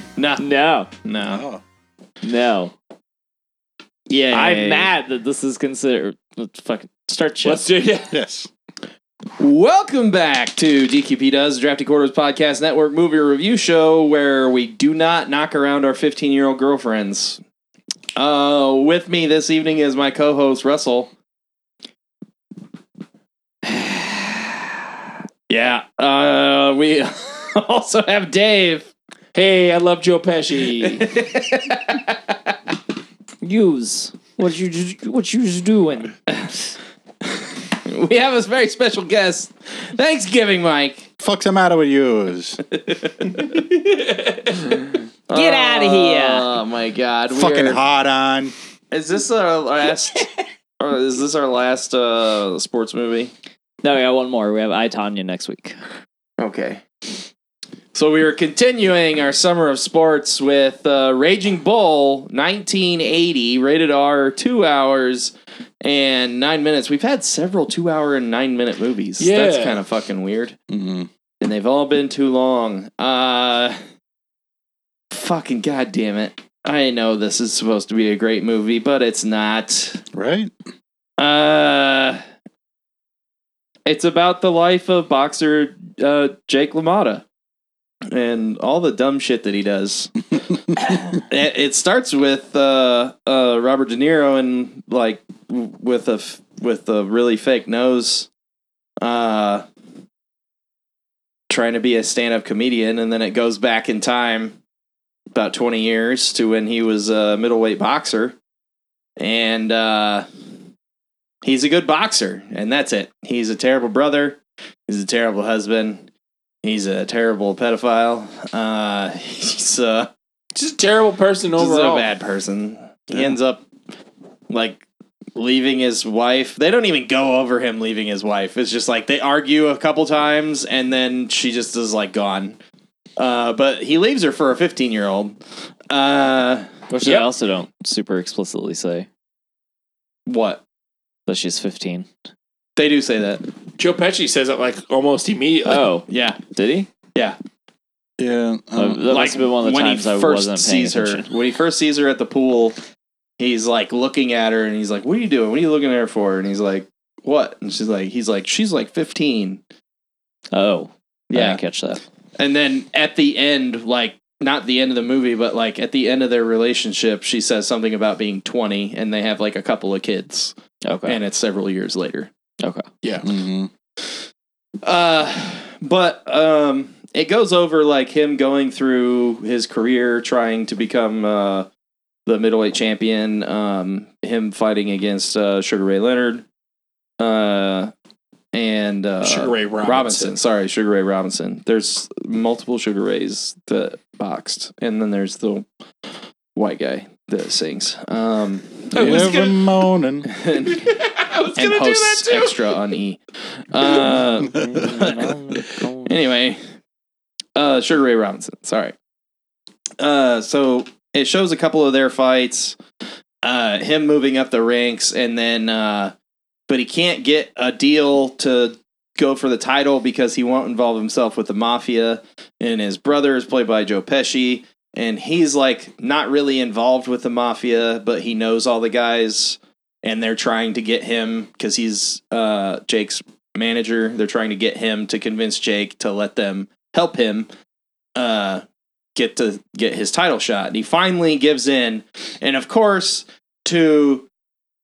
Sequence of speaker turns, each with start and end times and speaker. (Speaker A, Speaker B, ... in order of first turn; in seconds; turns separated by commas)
Speaker A: 0.1-0.5, Speaker B: 0.4-0.9, Speaker A: 1.0-1.4, Speaker C: 1.3-1.6, Speaker B: 2.2-2.7, Speaker B: 4.1-7.7, Speaker A: 4.3-4.9, Speaker D: 7.4-8.1, Speaker C: 8.1-8.5, Speaker A: 9.4-17.4, Speaker A: 18.1-21.1, Speaker A: 25.5-28.9, Speaker D: 29.3-31.1, Speaker A: 30.8-32.3, Speaker B: 33.4-36.2, Speaker A: 36.3-36.5, Speaker A: 37.7-41.1, Speaker C: 41.2-42.6, Speaker A: 42.7-43.7, Speaker D: 43.8-44.5, Speaker A: 44.6-47.8, Speaker B: 45.3-46.5, Speaker C: 47.3-48.5, Speaker A: 48.9-50.3, Speaker A: 50.8-53.3, Speaker B: 53.8-55.8, Speaker A: 56.4-56.8, Speaker A: 57.9-70.5, Speaker D: 69.2-69.8, Speaker C: 70.7-71.1, Speaker A: 71.4-73.8, Speaker A: 75.1-80.0, Speaker C: 80.1-80.5, Speaker A: 81.2-82.2, Speaker A: 83.9-87.2, Speaker A: 88.1-98.3, Speaker A: 99.0-99.6, Speaker A: 101.5-104.5, Speaker A: 105.3-108.3, Speaker A: 109.2-110.2, Speaker A: 111.4-116.0, Speaker A: 116.6-120.1, Speaker D: 120.5-122.1, Speaker A: 121.6-123.6, Speaker A: 124.5-124.8, Speaker A: 125.3-132.6, Speaker A: 133.2-135.4, Speaker A: 135.9-137.3, Speaker B: 136.9-139.1, Speaker A: 140.2-140.6, Speaker B: 141.3-142.1, Speaker A: 142.8-143.4, Speaker D: 143.8-145.9, Speaker B: 145.7-146.9, Speaker A: 146.1-146.4, Speaker C: 148.2-149.1, Speaker B: 148.8-151.3, Speaker A: 149.1-152.8, Speaker A: 153.4-159.6, Speaker B: 160.5-162.0, Speaker A: 161.3-161.6, Speaker A: 162.4-170.5, Speaker B: 170.8-171.2, Speaker A: 171.0-172.3, Speaker B: 172.6-172.8, Speaker D: 173.0-173.3, Speaker C: 173.2-173.7, Speaker A: 174.8-181.7, Speaker A: 182.2-186.4, Speaker A: 187.2-187.9, Speaker A: 188.5-195.7, Speaker D: 189.2-190.3, Speaker A: 196.5-199.3, Speaker D: 198.9-199.7, Speaker C: 198.9-200.3, Speaker A: 200.2-200.8, Speaker D: 200.7-202.8, Speaker A: 201.6-203.2, Speaker A: 203.7-204.6, Speaker C: 204.4-205.1, Speaker B: 204.4-206.1, Speaker A: 206.0-206.6, Speaker A: 207.5-208.9, Speaker A: 210.0-212.8, Speaker A: 213.4-216.1, Speaker A: 216.7-237.5, Speaker A: 238.2-238.6, Speaker A: 239.2-244.3